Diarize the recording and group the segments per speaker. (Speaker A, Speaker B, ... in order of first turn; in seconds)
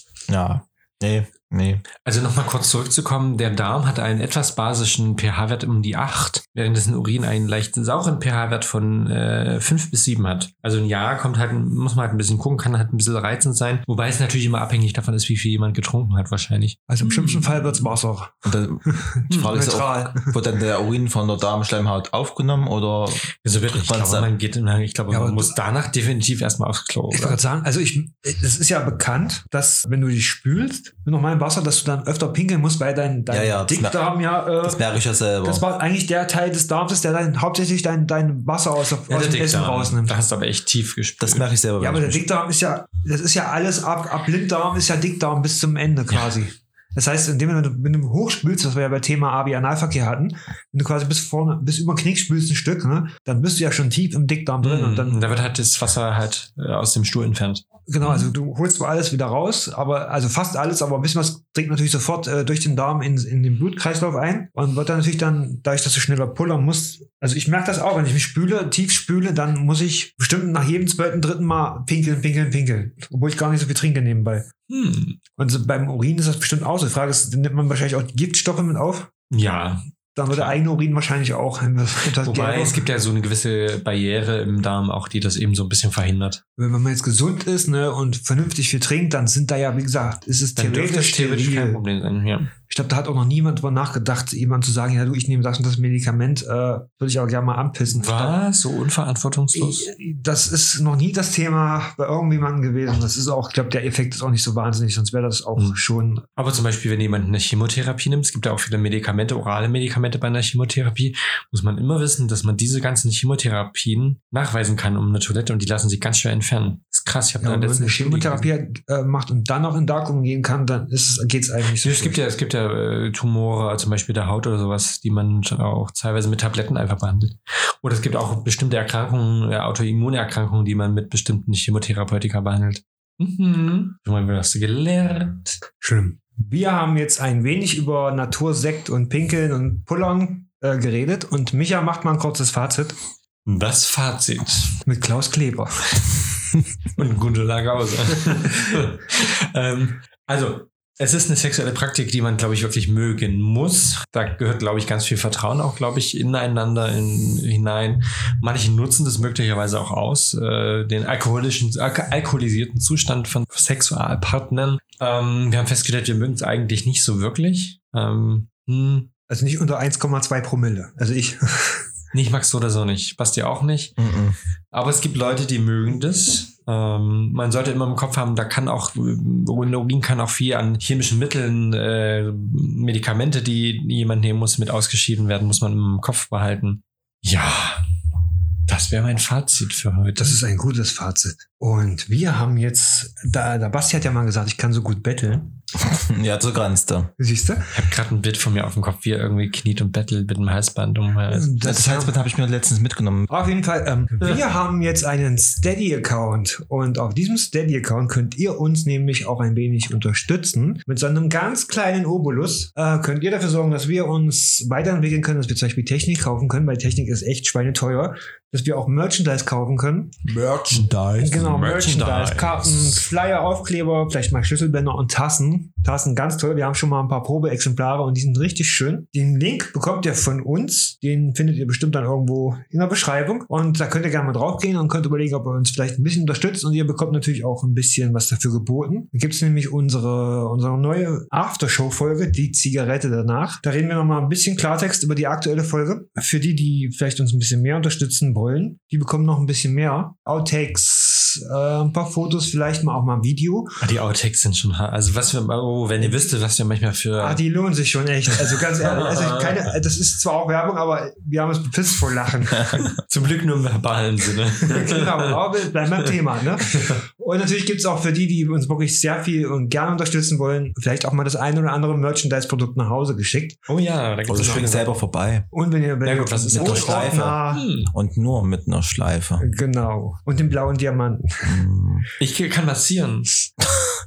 Speaker A: 0.3-1.8, 18.4-24.3, 33.3-34.0, 34.6-35.6, 41.2-42.2, 174.0-174.4, 195.8-197.1, 201.6-203.3, 220.2-221.5, 274.3-275.5, 276.5-279.4, 281.4-282.1
Speaker B: 2.0-17.9, 23.4-27.4, 39.1-41.5, 54.6-58.3, 74.7-75.2, 79.3-80.6, 82.1-86.4, 90.5-92.5, 97.9-99.9, 106.4-118.5, 121.8-135.6, 143.4-144.7, 146.9-169.1, 172.1-173.9, 174.7-187.8, 188.7-190.4, 197.7-201.5, 220.7-223.0, 253.8-257.4, 258.3-259.7, 263.0-266.1, 266.7-267.0, 273.7-274.8, 276.0-277.9, 282.2-283.5
Speaker C: 16.9-20.3, 25.1-25.6, 27.1-34.8, 35.4-40.1, 41.8-55.3, 57.9-74.5, 75.4-79.1, 80.1-82.9, 86.6-91.8, 92.7-98.4, 99.5-106.3, 117.4-122.2, 135.8-143.0, 144.8-145.9, 169.3-171.8, 190.2-195.5, 197.2-197.7, 201.3-202.2, 203.3-220.2, 221.2-253.8, 256.0-256.3, 257.2-262.9, 264.6-273.6, 274.3-274.8, 275.5-277.6, 279.4-281.4